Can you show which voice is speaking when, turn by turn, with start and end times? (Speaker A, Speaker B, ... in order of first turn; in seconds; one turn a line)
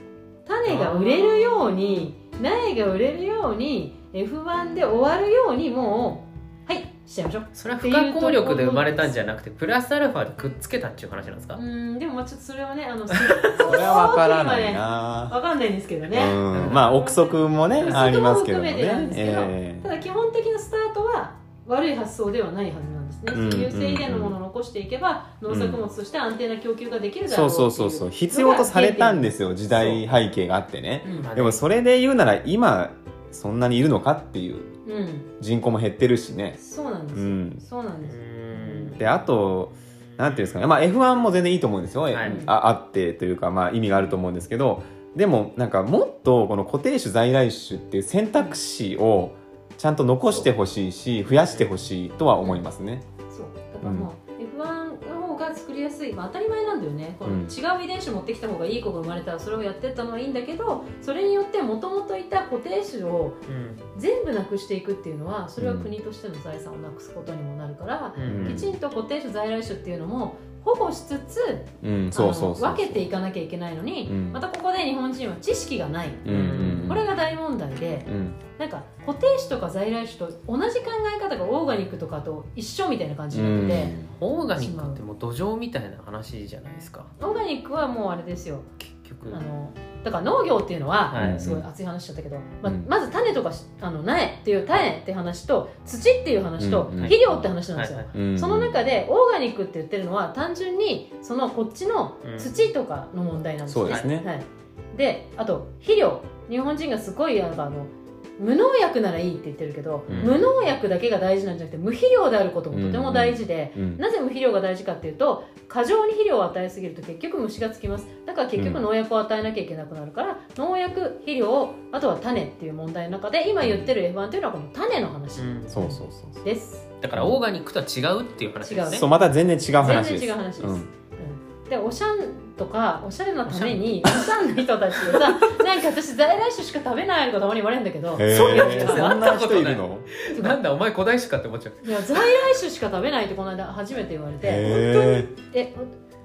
Speaker A: 0.5-9.2
Speaker B: 0.7-2.1
Speaker B: 7.5-11.6
Speaker A: 11.5-30.0
Speaker B: 13.1-13.9
Speaker C: 13.6-15.3
Speaker C: 16.1-19.9
Speaker B: 16.5-16.9
Speaker C: 23.3-24.3
Speaker C: 25.5-25.8
Speaker C: 27.3-34.7
Speaker A: 31.0-31.3
Speaker B: 31.2-31.6
Speaker A: 34.8-35.3
Speaker C: 35.4-36.6
Speaker A: 36.6-39.0
Speaker C: 37.1-37.6
Speaker B: 38.0-39.0
Speaker C: 39.0-53.0
Speaker B: 42.1-42.4
Speaker A: 42.2-42.5
Speaker B: 51.3-51.7
Speaker A: 53.3-63.4
Speaker C: 53.8-54.1
Speaker C: 57.2-57.5
Speaker B: 63.5-63.9
Speaker A: 63.9-84.0
Speaker C: 65.6-65.9
Speaker B: 68.2-68.7
Speaker C: 68.2-68.7
Speaker C: 71.8-73.1
Speaker C: 74.0-74.4
Speaker C: 76.2-77.0
Speaker B: 76.3-77.0
Speaker C: 78.0-78.4
Speaker C: 83.3-84.1
Speaker B: 84.2-87.1
Speaker A: 84.5-85.0
Speaker A: 87.2-88.7
Speaker B: 88.8-89.4
Speaker A: 89.2-126.9
Speaker B: 91.1-91.5
Speaker C: 91.1-91.6
Speaker C: 92.6-92.9
Speaker C: 96.6-97.5
Speaker B: 97.7-98.1
Speaker C: 98.1-98.7
Speaker B: 102.2-102.6
Speaker C: 103.7-104.3
Speaker B: 110.0-110.4
Speaker C: 110.1-110.4
Speaker C: 112.7-114.0
Speaker C: 118.5-118.8
Speaker C: 123.6-123.9
Speaker B: 125.4-125.7
Speaker C: 125.7-126.4
Speaker B: 127.0-129.1
Speaker A: 128.6-139.2
Speaker C: 128.9-130.9
Speaker B: 133.4-135.6
Speaker C: 138.2-140.1
Speaker B: 138.2-142.5
Speaker A: 140.3-140.6
Speaker A: 141.8-145.9
Speaker C: 144.4-145.3